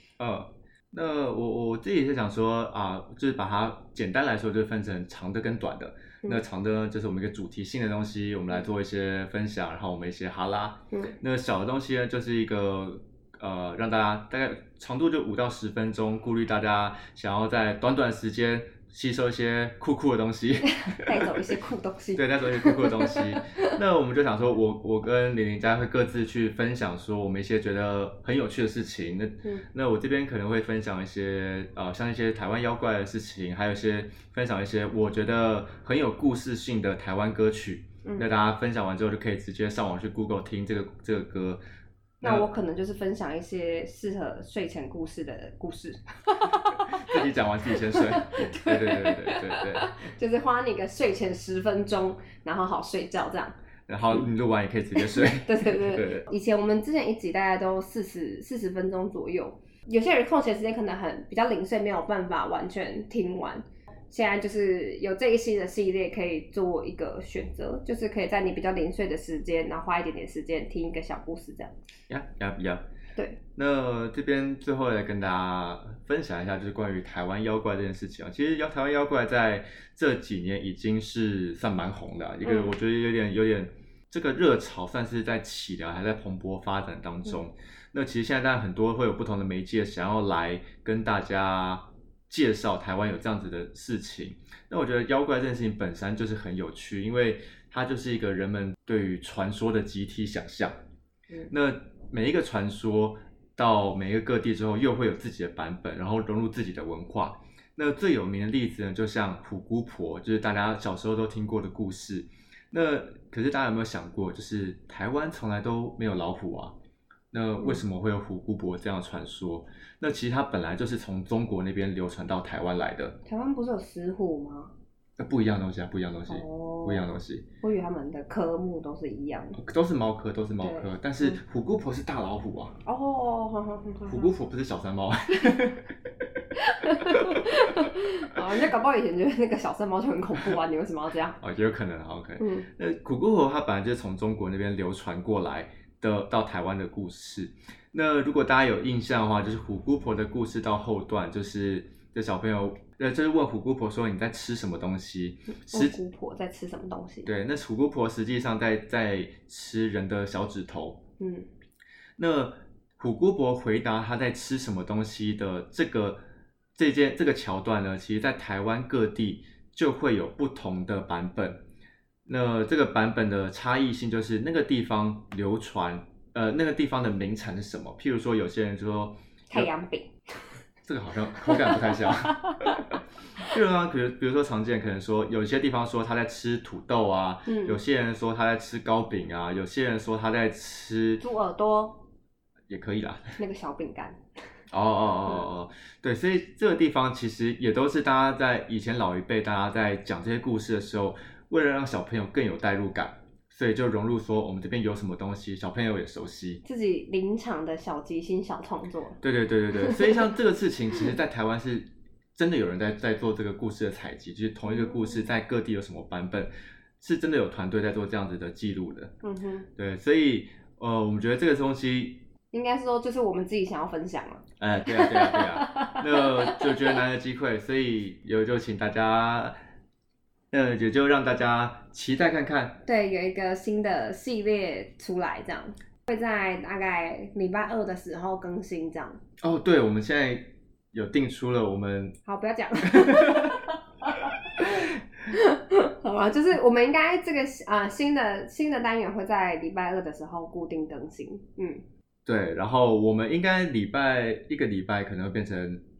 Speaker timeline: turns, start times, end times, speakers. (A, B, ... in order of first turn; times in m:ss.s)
0:00.2-0:21.3 A
0:10.9-0:11.2 B
0:20.7-0:23.7 B
0:22.2-0:41.6 A
0:38.0-0:38.3 B
0:42.2-0:42.5 A
0:42.2-0:47.2 B
0:46.8-0:50.0 A
0:47.8-0:53.5 B
0:53.9-0:56.3 A
0:55.0-1:11.7 B
1:12.1-1:12.8 A
1:13.6-1:40.7 A
1:22.4-1:22.7 B
1:41.5-1:56.8 A
1:57.3-2:03.2 A
2:03.2-2:04.7 B
2:05.2-2:07.4 A
2:06.3-2:07.1 B
2:07.6-2:09.6 B
2:09.6-2:12.8 A
2:10.6-2:11.4 B
2:12.8-2:14.3 B
2:14.0-2:15.9 A
2:16.6-2:21.4 B
2:17.1-2:17.4 A
2:21.4-2:36.0 A
2:22.4-2:22.7 B
2:35.5-2:37.3 B
2:37.2-2:41.0 A
2:41.2-2:41.5 B
2:42.2-2:46.2 A
2:46.8-2:51.6 A
2:52.2-2:59.7 A
2:59.5-3:00.1 B
3:00.8-3:11.2 A
3:01.4-3:02.8 B
3:07.4-3:07.8 B
3:11.2-3:12.0 B
3:12.7-3:13.3 A
3:13.4-3:14.2 B
3:14.7-3:26.6 A
3:26.6-3:29.2 B
3:29.2-3:39.1 A
3:29.8-3:30.2 B
3:39.2-3:39.7 B
3:39.8-3:42.3 A
3:42.5-3:46.8 B
3:44.6-3:49.6 A
3:50.5-3:52.8 A
3:52.8-3:59.2 B
3:59.4-4:02.2 A
4:02.2-4:11.8 B
4:02.8-4:03.6 A
4:12.2-4:15.8 A